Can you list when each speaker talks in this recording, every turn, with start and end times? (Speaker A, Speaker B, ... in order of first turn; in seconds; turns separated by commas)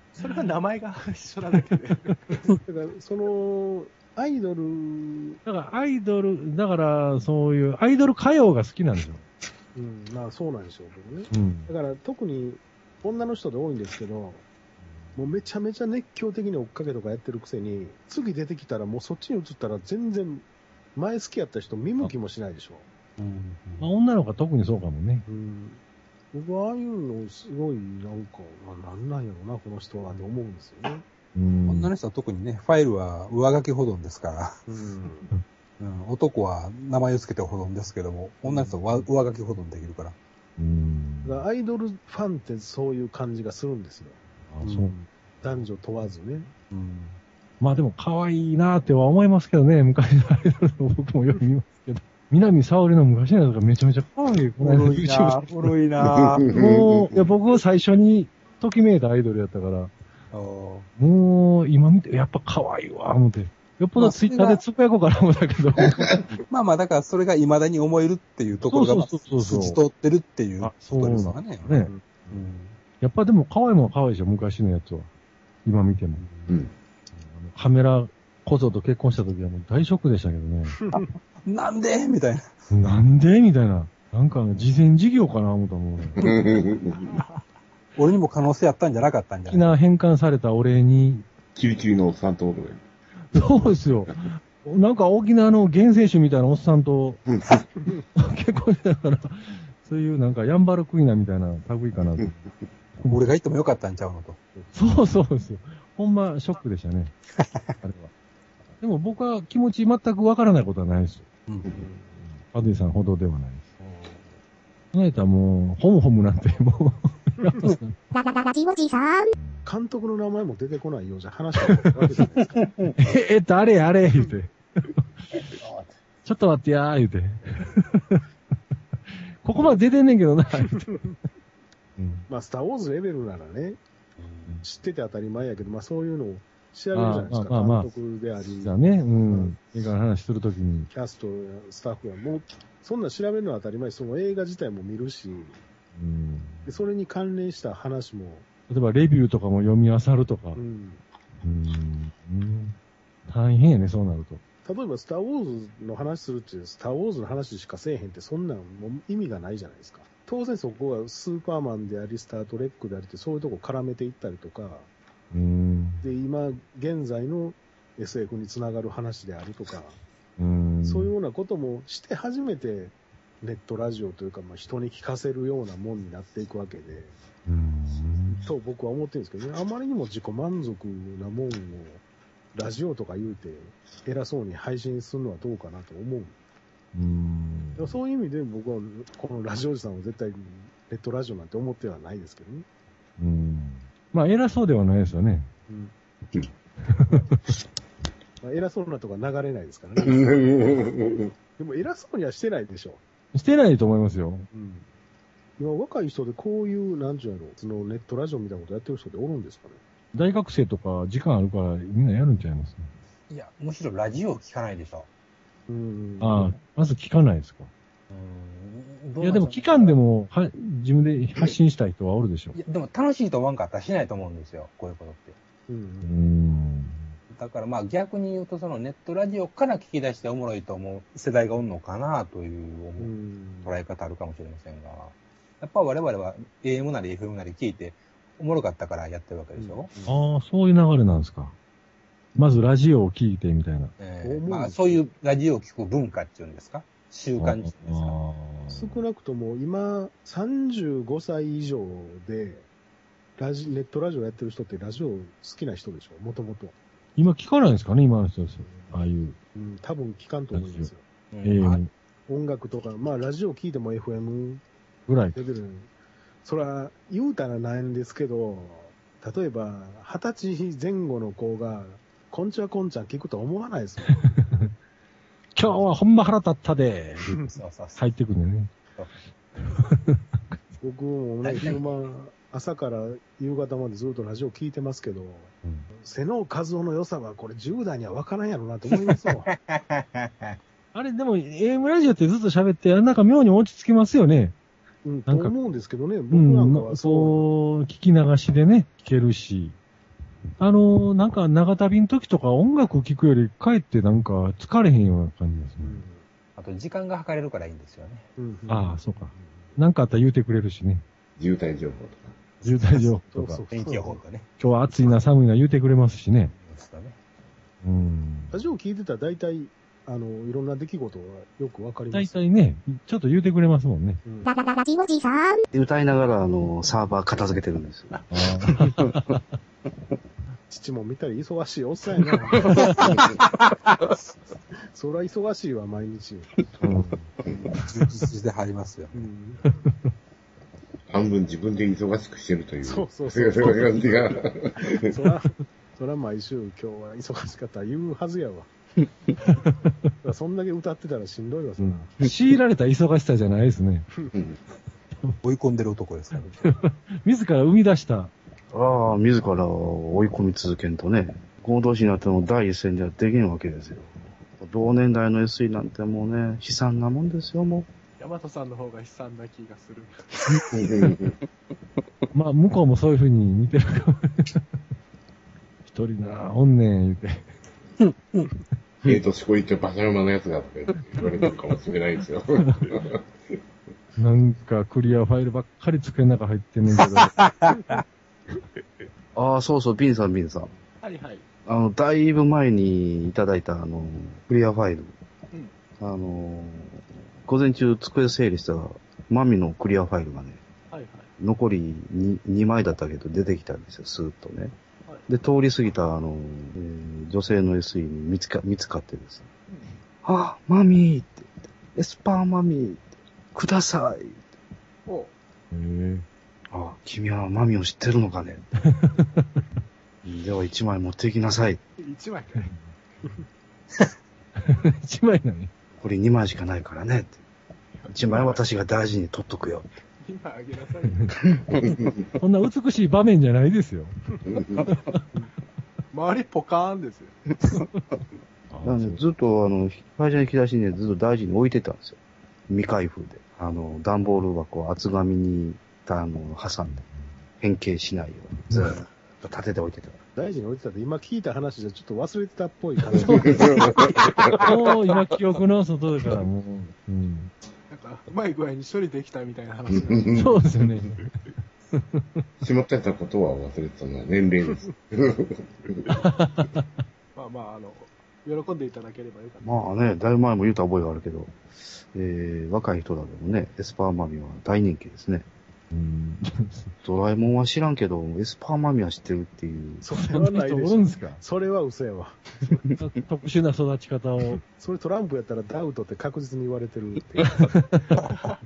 Speaker A: 0.2-2.2, Speaker B: 2.6-5.4, Speaker C: 5.4-9.2, Speaker B: 9.7-14.4, Speaker C: 11.3-11.7, Speaker B: 15.2-22.9, Speaker D: 23.2-23.9, Speaker C: 23.8-25.2, Speaker B: 25.2-25.8, Speaker B: 26.3-31.0, Speaker C: 31.3-31.9, Speaker D: 31.7-34.6, Speaker B: 34.7-35.3, Speaker D: 35.8-40.1, Speaker B: 38.5-38.8, Speaker C: 40.6-41.5, Speaker B: 41.2-44.2, Speaker C: 44.5-45.0, Speaker D: 44.6-44.9, Speaker B: 45.4-46.5, Speaker D: 46.7-47.2, Speaker C: 47.6-55.7, Speaker D: 54.6-56.5, Speaker E: 56.0-57.3, Speaker C: 56.5-59.9, Speaker D: 60.3-60.9, Speaker C: 61.0-66.1, Speaker D: 64.0-64.6, Speaker E: 66.0-66.2, Speaker D: 66.5-71.7, Speaker C: 68.7-69.8, Speaker C: 70.6-71.9, Speaker B: 71.8-72.4, Speaker D: 72.3-72.8, Speaker C: 73.0-75.1, Speaker C: 75.6-76.2, Speaker C: 77.1-80.8, Speaker D: 81.4-82.5, Speaker C: 82.7-86.3, Speaker E: 86.2-87.2, Speaker D: 88.0-89.8, Speaker C: 89.5-91.2, Speaker E: 91.5-92.8, Speaker C: 93.3-97.2, Speaker E: 93.3-93.7, Speaker E: 97.3-97.6, Speaker C: 98.2-102.5, Speaker C: 103.0-103.3, Speaker D: 103.1-104.4, Speaker C: 104.7-107.1, Speaker D: 107.4-107.6, Speaker C: 107.8-108.1, Speaker C: 108.8-111.2, Speaker B: 111.8-112.2, Speaker C: 112.3-113.7, Speaker B: 113.8-114.3, Speaker C: 114.9-118.0, Speaker F: 118.1-119.3, Speaker C: 119.3-119.7, Speaker B: 119.6-122.6, Speaker C: 123.0-125.0, Speaker C: 126.2-128.2, Speaker C: 129.4-130.9, Speaker C: 132.0-132.3, Speaker B: 132.3-133.8, Speaker D: 134.2-134.5, Speaker B: 134.6-138.7, Speaker C: 136.9-137.9, Speaker C: 138.6-140.9, Speaker B: 139.2-139.5, Speaker B: 140.9-145.6, Speaker C: 145.9-146.8, Speaker B: 146.7-148.4, Speaker C: 148.7-150.6, Speaker B: 150.6-151.0, Speaker C: 151.4-152.8, Speaker C: 153.3-154.4, Speaker B: 154.6-164.9, Speaker C: 165.3-166.0, Speaker B: 166.0-170.0, Speaker C: 170.4-171.1, Speaker B: 170.8-177.1, Speaker C: 177.5-178.5, Speaker B: 178.4-182.0, Speaker B: 182.5-186.4, Speaker C: 186.9-187.9, Speaker B: 187.8-192.6, Speaker C: 193.2-195.5, Speaker B: 195.7-195.9, Speaker C: 196.9-197.4, Speaker B: 198.4-200.6, Speaker E: 200.0-201.3, Speaker B: 201.6-203.0, Speaker C: 203.3-204.5, Speaker B: 204.5-204.8, Speaker B: 205.6-209.8, Speaker C: 210.1-212.9, Speaker D: 213.3-215.1, Speaker B: 215.7-216.5, Speaker C: 216.2-217.7, Speaker D: 218.1-220.0, Speaker C: 219.2-222.6, Speaker D: 222.5-225.4, Speaker B: 225.7-226.1, Speaker C: 226.0-227.1, Speaker D: 227.3-239.9, Speaker B: 233.0-233.7, Speaker B: 239.6-240.2, Speaker C: 240.1-241.5, Speaker C: 242.3-243.9, Speaker D: 244.0-248.2, Speaker B: 244.2-245.0, Speaker C: 247.4-249.0, Speaker B: 248.7-252.7, Speaker B: 253.4-256.7, Speaker C: 257.2-259.4, Speaker B: 259.5-261.0, Speaker C: 260.5-260.9, Speaker D: 261.3-261.8, Speaker C: 261.4-261.9, Speaker B: 262.3-264.6, Speaker C: 265.1-265.4, Speaker B: 265.3-265.9, Speaker B: 266.4-274.4, Speaker C: 274.1-274.7, Speaker C: 275.5-278.7, Speaker B: 277.3-277.6, Speaker D: 277.5-278.0, Speaker C: 279.6-280.2, Speaker B: 280.8-289.5, Speaker D: 281.4-281.8, Speaker D: 288.9-290.6, Speaker C: 290.9-294.5, Speaker B: 295.0-297.4, Speaker C: 295.3-295.5, Speaker C: 296.3-299.8, Speaker C: 300.6-306.0, Speaker B: 305.8-306.2, Speaker D: 306.6-308.3, Speaker B: 308.4-309.8, Speaker C: 308.7-311.0, Speaker E: 311.4-312.4, Speaker C: 312.6-313.6, Speaker D: 312.6-313.1, Speaker B: 313.3-314.2, Speaker D: 313.7-314.5, Speaker C: 314.6-316.5, Speaker D: 316.5-317.2, Speaker C: 317.8-318.6, Speaker B: 318.5-322.4, Speaker C: 322.1-324.2, Speaker F: 324.4-325.6, Speaker G: 325.7-328.2, Speaker C: 328.3-329.4, Speaker B: 330.7-333.1, Speaker C: 332.7-333.1, Speaker D: 333.4-334.1, Speaker B: 334.9-336.5, Speaker C: 336.8-337.3, Speaker D: 337.9-339.3, Speaker B: 339.1-339.6, Speaker E: 341.1-345.1, Speaker B: 342.8-344.4, Speaker B: 344.9-348.7, Speaker C: 349.6-350.1, Speaker B: 350.2-352.1, Speaker C: 351.8-354.1, Speaker D: 355.4-356.7, Speaker C: 356.7-358.3, Speaker G: 358.7-367.9, Speaker A: 368.2-370.2, Speaker E: 370.6-371.4, Speaker C: 372.3-374.6, Speaker C: 375.8-377.5, Speaker D: 378.0-378.5, Speaker E: 379.0-383.2, Speaker C: 384.2-387.5, Speaker D: 387.4-388.0, Speaker G: 389.3-390.7, Speaker A: 391.0-391.4, Speaker G: 391.6-395.1, Speaker G: 396.0-400.6, Speaker A: 400.9-401.3, Speaker G: 401.4-404.7, Speaker G: 405.3-409.5, Speaker G: 410.2-414.4, Speaker A: 415.1-415.3, Speaker C: 415.7-416.2, Speaker G: 416.7-418.6, Speaker C: 419.0-419.4, Speaker G: 420.2-421.8, Speaker A: 422.0-422.7, Speaker C: 422.6-422.8, Speaker C: 424.6-425.7, Speaker G: 426.0-427.4, Speaker A: 428.0-428.5, Speaker G: 428.1-429.9, Speaker A: 430.2-431.4, Speaker C: 432.4-434.1, Speaker E: 434.5-434.9, Speaker C: 434.8-435.2, Speaker A: 436.1-437.3, Speaker C: 438.7-439.2, Speaker G: 438.8-442.2, Speaker G: 442.7-447.0, Speaker C: 446.9-447.3, Speaker G: 447.6-450.2, Speaker B: 450.3-453.9, Speaker C: 453.2-453.6, Speaker E: 453.2-454.6, Speaker C: 454.5-457.5, Speaker A: 457.9-460.4, Speaker E: 459.9-460.7, Speaker C: 460.3-461.3, Speaker C: 461.9-462.4, Speaker E: 462.6-466.1, Speaker C: 466.1-466.9, Speaker A: 467.3-469.9, Speaker G: 469.6-471.6, Speaker G: 472.1-475.5, Speaker C: 475.9-476.9, Speaker G: 477.0-480.0, Speaker B: 480.0-482.7, Speaker C: 480.2-481.4, Speaker C: 483.0-484.6, Speaker B: 484.8-487.7, Speaker C: 487.7-488.0